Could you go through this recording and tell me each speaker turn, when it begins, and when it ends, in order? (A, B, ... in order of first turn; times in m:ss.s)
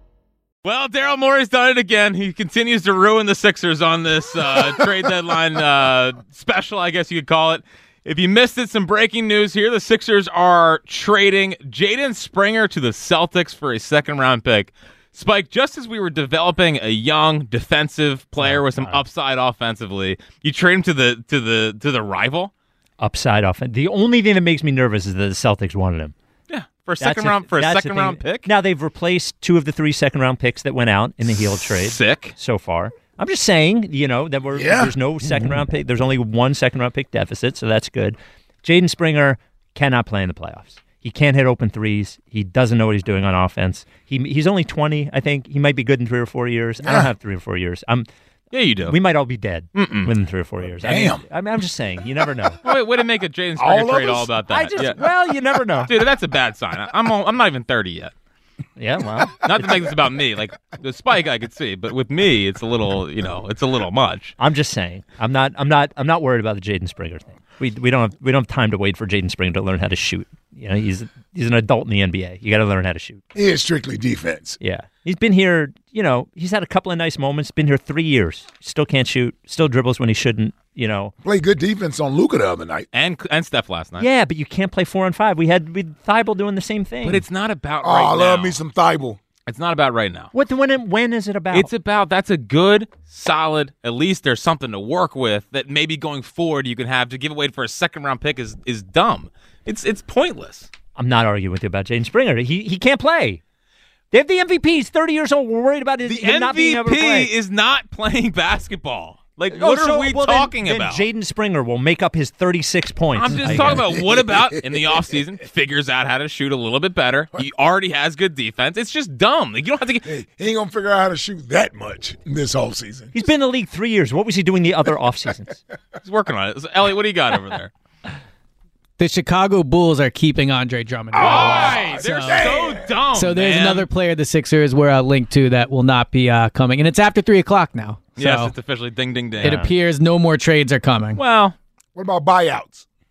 0:00.6-0:22.5 A
0:18.4-0:19.0 B
0:23.0-0:26.1 B
0:26.5-0:28.5 A
0:27.0-0:48.1 B
0:31.8-0:32.3 A
0:34.5-0:34.9 C
0:46.8-0:47.1 C
0:48.5-0:49.0 A
0:48.9-0:52.6 B
0:49.7-0:50.1 A
0:50.8-0:51.2 C
0:52.6-0:55.0 A
0:53.6-0:55.0 C
0:54.5-0:55.9 B
0:55.9-0:58.1 A
0:58.8-0:59.4 B
0:59.4-1:04.3 A
1:04.4-1:13.2 B
1:13.3-1:14.6 C
1:14.6-1:21.1 B
1:21.2-1:22.9 C
1:22.9-1:24.1 A
1:24.0-1:27.2 B
1:27.0-1:28.6 A
1:27.8-1:29.2 C
1:29.4-1:30.3 A
1:30.3-1:31.7 B
1:31.5-1:40.7 A
1:41.0-1:43.4 B
1:44.1-1:47.3 B
1:46.0-1:51.0 A
1:49.5-1:53.9 B
1:53.1-2:00.1 A
1:53.5-1:55.0 C
2:00.0-2:03.1 C
2:03.1-2:05.6 B
2:06.0-2:07.7 A
2:09.0-2:18.5 D
2:11.1-2:13.0 C
2:11.2-2:13.9 A
2:18.2-2:19.7 A
2:19.4-2:21.2 D
2:21.2-2:21.6 A
2:22.0-2:22.9 C